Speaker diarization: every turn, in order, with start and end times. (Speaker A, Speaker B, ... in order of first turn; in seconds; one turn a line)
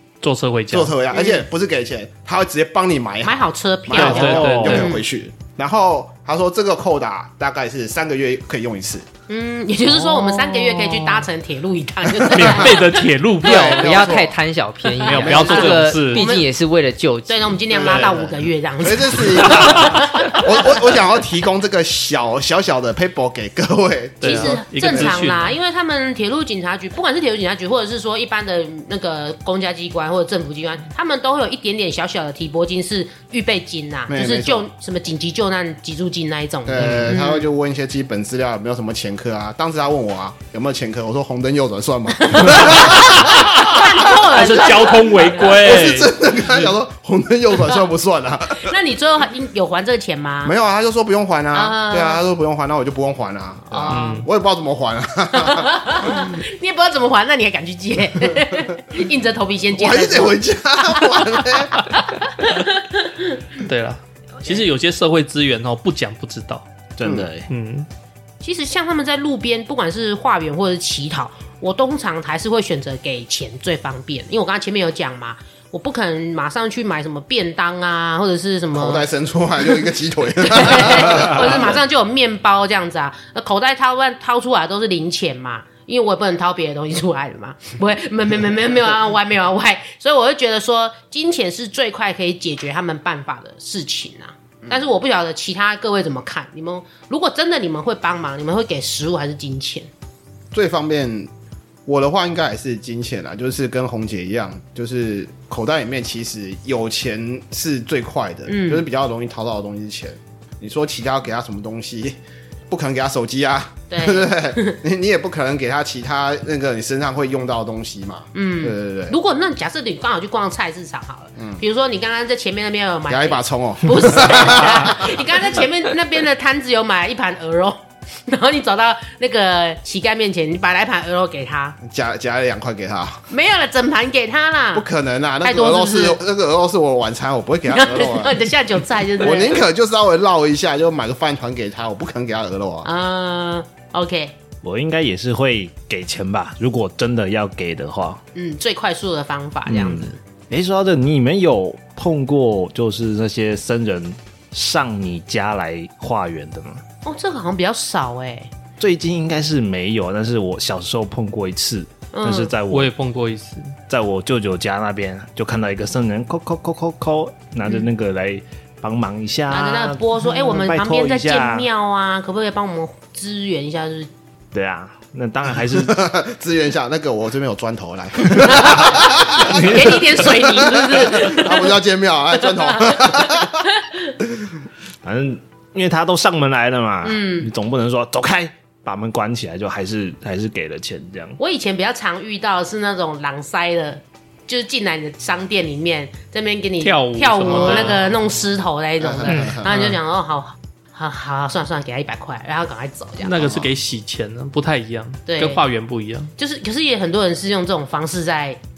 Speaker A: 0.2-0.9
Speaker B: 0.7-9.1
Speaker C: 1.1-1.4
Speaker C: 3.2-5.0
Speaker A: 3.9-4.9
Speaker D: 4.3-4.8
Speaker C: 9.3-14.1
Speaker B: 12.2-12.8
Speaker A: 12.3-14.0
Speaker B: 13.4-14.3
Speaker E: 13.6-17.6
Speaker C: 14.8-16.5
Speaker A: 15.0-16.3
Speaker B: 15.1-15.7
Speaker C: 17.3-20.9
Speaker B: 17.7-25.3
Speaker A: 19.4-19.9
Speaker A: 24.2-25.6
Speaker C: 24.2-37.4
Speaker B: 34.1-34.7
Speaker B: 36.6-44.6
Speaker A: 36.8-37.1
Speaker C: 42.2-45.8
Speaker A: 42.6-43.7
Speaker A: 44.2-46.7
Speaker B: 45.4-48.8
Speaker C: 48.6-50.5
Speaker B: 50.4-56.2
Speaker C: 51.5-52.2
Speaker C: 53.7-54.2
Speaker A: 53.9-54.3
Speaker C: 55.4-60.4
Speaker B: 59.7-61.8
Speaker C: 60.9-63.6
Speaker A: 63.5-66.7
Speaker D: 67.0-67.5
Speaker A: 67.5-67.9
Speaker C: 68.4-79.0
Speaker B: 78.7-81.8
Speaker C: 80.4-99.9
Speaker B: 100.5-101.3
Speaker B: 101.8-112.2
Speaker C: 108.5-108.8
Speaker B: 112.7-119.2
Speaker C: 113.9-114.8
Speaker C: 118.3-131.8
Speaker B: 121.3-121.6
Speaker B: 123.1-125.6
Speaker B: 131.8-133.2
Speaker C: 133.3-134.8
Speaker B: 134.7-138.4
Speaker C: 135.4-136.2
Speaker C: 137.7-139.6
Speaker B: 139.2-142.9
Speaker C: 142.8-144.3
Speaker D: 144.6-148.2
Speaker C: 148.3-150.2
Speaker D: 149.7-156.8
Speaker C: 157.0-158.5
Speaker D: 158.8-162.9
Speaker C: 162.1-162.5
Speaker A: 162.7-163.8
Speaker D: 163.9-171.7
Speaker C: 169.5-174.1
Speaker D: 174.5-176.0
Speaker B: 175.7-183.6
Speaker C: 178.5-181.8
Speaker D: 178.8-180.0
Speaker C: 182.4-184.1
Speaker D: 185.0-191.4
Speaker C: 187.0-187.5
Speaker C: 191.4-203.5
Speaker A: 196.8-198.0
Speaker B: 197.5-197.9
Speaker B: 199.0-199.7
Speaker E: 199.3-199.6
Speaker A: 199.7-200.0
Speaker A: 203.2-206.3
Speaker B: 203.4-203.7
Speaker C: 205.3-205.6
Speaker C: 206.4-208.6